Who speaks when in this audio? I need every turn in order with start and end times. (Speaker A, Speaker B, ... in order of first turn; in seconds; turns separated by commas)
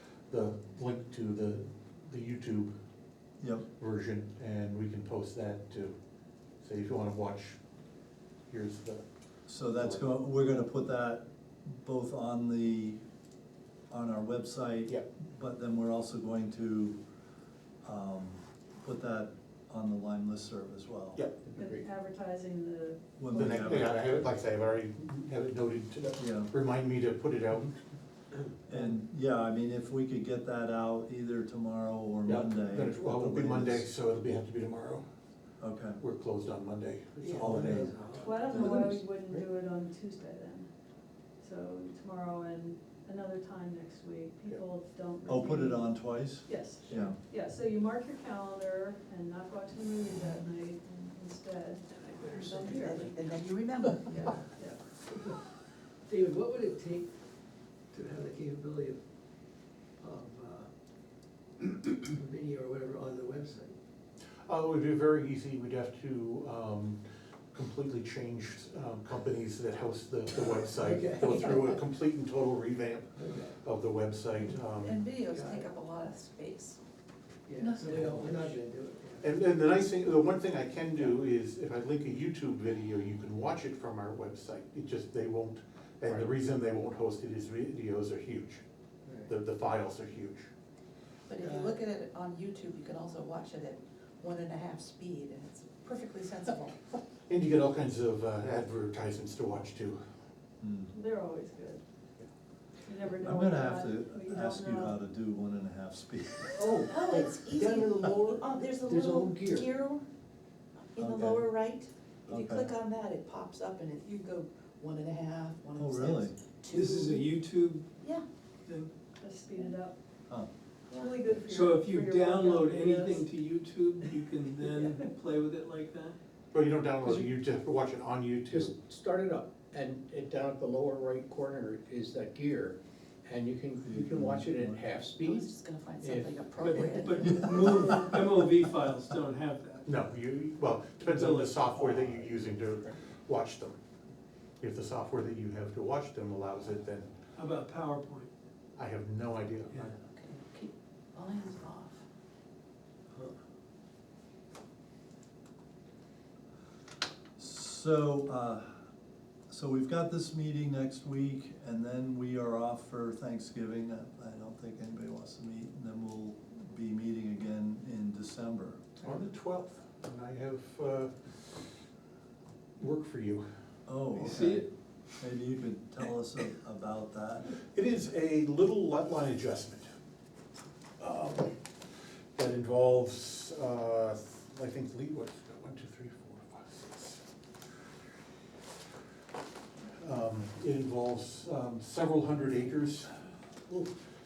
Speaker A: 0.3-2.7, Speaker B: 3.4-3.6, Speaker A: 3.8-5.9, Speaker A: 6.6-7.6, Speaker A: 8.5-9.0, Speaker B: 9.5-13.0, Speaker A: 9.7-10.1, Speaker B: 13.9-17.0, Speaker B: 17.8-21.2, Speaker A: 21.1-21.5, Speaker C: 21.4-21.9, Speaker D: 21.6-23.6, Speaker B: 23.2-23.9, Speaker A: 23.3-27.7, Speaker B: 26.2-26.5, Speaker B: 28.7-33.9, Speaker A: 32.2-35.0, Speaker B: 35.6-36.0, Speaker A: 36.0-37.9, Speaker E: 37.1-38.8, Speaker B: 37.4-37.9, Speaker D: 38.1-40.7, Speaker B: 38.5-38.9, Speaker D: 41.4-53.2, Speaker B: 45.3-47.2, Speaker F: 52.2-54.3, Speaker D: 54.0-54.8, Speaker E: 55.1-55.4, Speaker E: 56.0-57.1, Speaker E: 57.9-59.0, Speaker E: 60.0-60.7, Speaker E: 61.6-63.7, Speaker A: 64.5-67.0, Speaker A: 67.5-75.0, Speaker E: 70.3-71.8, Speaker E: 73.2-73.5, Speaker F: 74.7-76.8, Speaker E: 75.3-75.6, Speaker E: 77.5-79.3, Speaker F: 77.6-78.5, Speaker A: 77.9-78.2, Speaker A: 79.2-88.6, Speaker E: 89.0-89.3, Speaker A: 89.2-90.5, Speaker F: 91.3-96.8, Speaker E: 91.4-91.8, Speaker A: 97.3-100.0, Speaker B: 100.6-100.9, Speaker D: 100.9-101.8, Speaker D: 102.8-105.0, Speaker B: 103.2-106.6, Speaker C: 106.6-109.7, Speaker F: 106.6-110.0, Speaker F: 110.9-117.3, Speaker C: 111.0-111.4, Speaker B: 112.3-112.7, Speaker B: 115.8-116.3, Speaker G: 116.7-117.9, Speaker F: 118.0-118.2, Speaker D: 119.2-119.9, Speaker D: 120.9-123.2, Speaker G: 121.5-126.2, Speaker D: 124.7-125.0, Speaker A: 126.5-128.7, Speaker C: 128.5-135.5, Speaker B: 133.8-134.8, Speaker F: 135.1-138.0, Speaker C: 136.1-136.4, Speaker G: 136.6-139.9, Speaker A: 139.8-143.8, Speaker G: 141.0-142.3, Speaker A: 144.6-147.1, Speaker G: 147.4-148.3, Speaker A: 148.8-149.9, Speaker F: 150.0-152.0, Speaker B: 157.4-158.8, Speaker B: 159.5-168.9, Speaker A: 169.0-171.6, Speaker A: 172.8-173.4, Speaker B: 173.9-177.6, Speaker G: 174.1-174.7, Speaker A: 177.7-179.9, Speaker A: 181.0-181.5, Speaker A: 182.3-187.2, Speaker A: 190.0-193.1